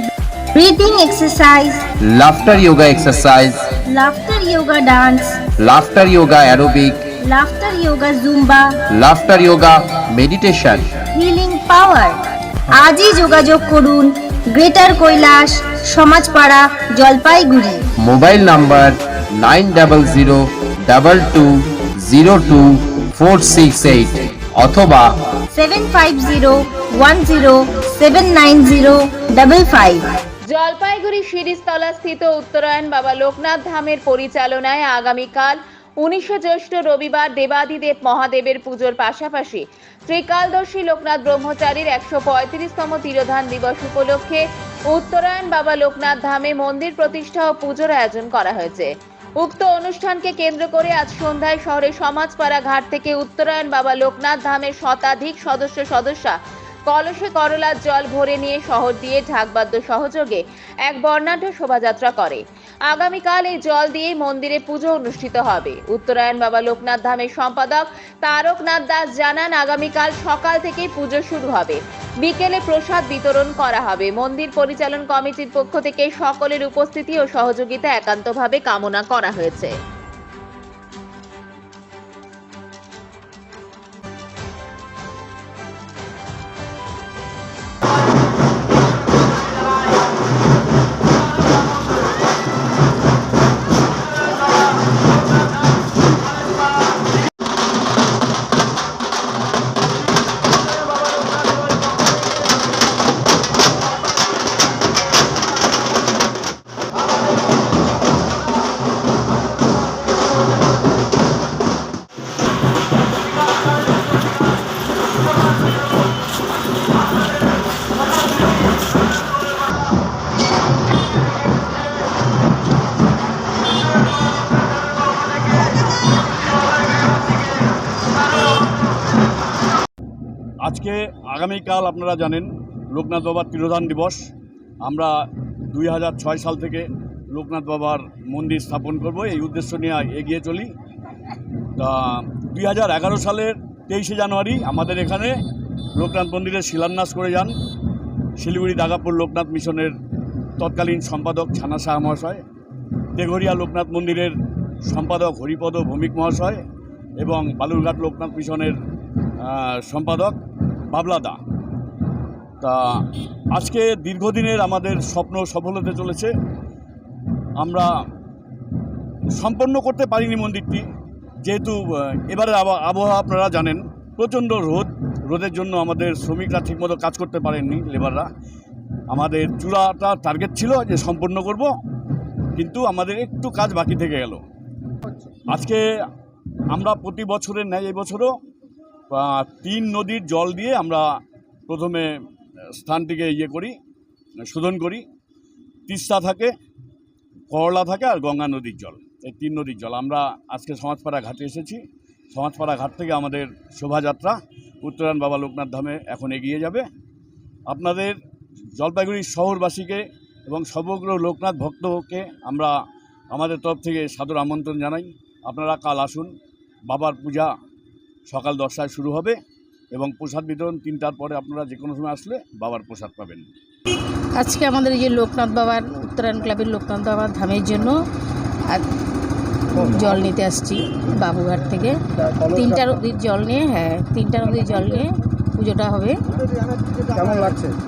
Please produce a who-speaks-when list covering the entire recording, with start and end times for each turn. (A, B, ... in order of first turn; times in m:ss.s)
0:00.6-0:01.8 A
0:02.0-0:03.8 B
0:03.9-0:05.5 A
0:05.6-0:07.1 B
0:07.2-0:08.8 A
0:08.9-0:11.0 B
0:11.1-0:12.2 A
0:12.7-0:17.9 A
0:18.0-0:25.2 B
0:25.5-0:30.0 A
0:30.5-0:48.9 C
0:49.4-0:56.4 C
0:56.9-1:19.7 C
2:10.6-2:14.3 D
2:14.8-2:15.1 D
2:15.7-2:20.7 D
2:21.8-2:25.4 D
2:26.0-2:27.6 D
2:28.4-2:29.9 D
2:30.6-2:32.4 D
2:33.2-2:34.4 D
2:34.9-2:36.6 D
2:37.2-2:38.8 D
2:39.4-2:40.4 D
2:40.9-2:41.4 D
2:42.6-2:43.0 D
2:43.5-2:46.3 D
2:47.6-2:47.9 D
2:49.3-2:50.9 D
2:51.4-2:58.3 D
2:59.1-3:01.7 D
3:02.6-3:04.4 D
3:05.5-3:05.8 D
3:06.7-3:08.3 D
3:09.1-3:11.0 D
3:11.7-3:12.1 D
3:12.8-3:13.8 D
3:14.5-3:15.0 D
3:15.9-3:16.6 D
3:17.5-3:26.9 D
3:27.7-3:28.2 D
3:28.8-3:32.8 D
3:33.3-3:36.3 D
3:36.9-3:37.5 D
3:38.3-3:39.4 D
3:39.9-3:43.5 D
3:44.4-3:48.0 E
3:49.7-3:56.2 E
3:56.3-3:57.6 D